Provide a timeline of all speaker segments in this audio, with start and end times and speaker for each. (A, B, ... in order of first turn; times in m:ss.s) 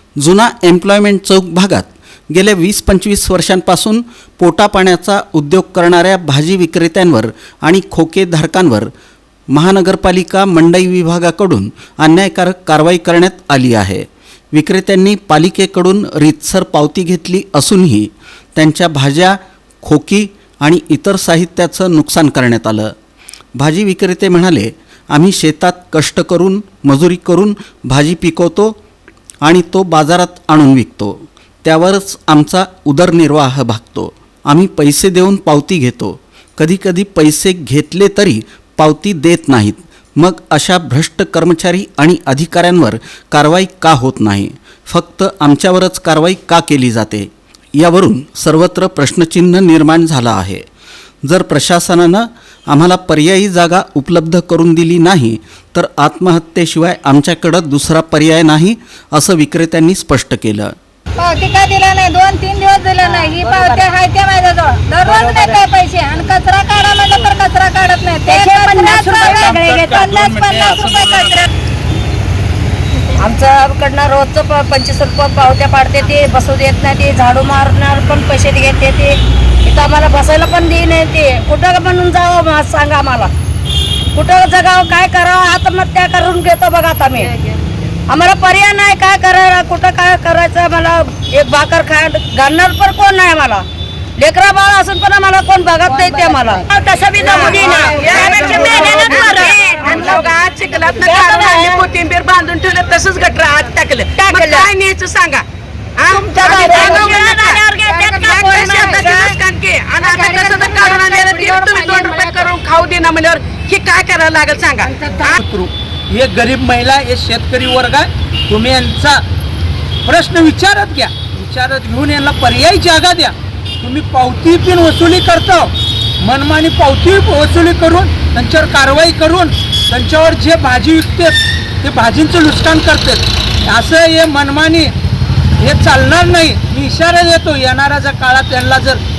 0:00.2-0:08.9 A
0:09.5-0:22.9 A
0:23.6-0:28.7 A
0:29.4-0:50.7 A
0:51.3-1:00.8 A
1:01.2-1:11.4 B
1:03.0-1:03.8 C
1:08.3-1:10.2 C
1:09.1-1:11.4 D
1:13.1-1:23.3 C
1:24.1-1:27.3 C
1:28.1-1:33.6 C
1:34.2-1:40.2 C
1:35.9-1:36.6 B
1:37.2-1:45.4 E
1:37.4-1:38.2 B
1:39.0-1:40.2 B
1:41.1-1:41.7 B
1:41.4-1:41.8 C
1:44.2-1:44.7 C
1:46.0-1:55.4 E
1:46.1-1:49.3 C
1:46.6-1:47.2 B
1:47.9-1:49.3 B
1:50.0-1:52.5 B
1:55.0-1:55.3 B
1:55.4-1:59.2 D
2:00.0-2:14.9 D
2:15.6-2:19.0 D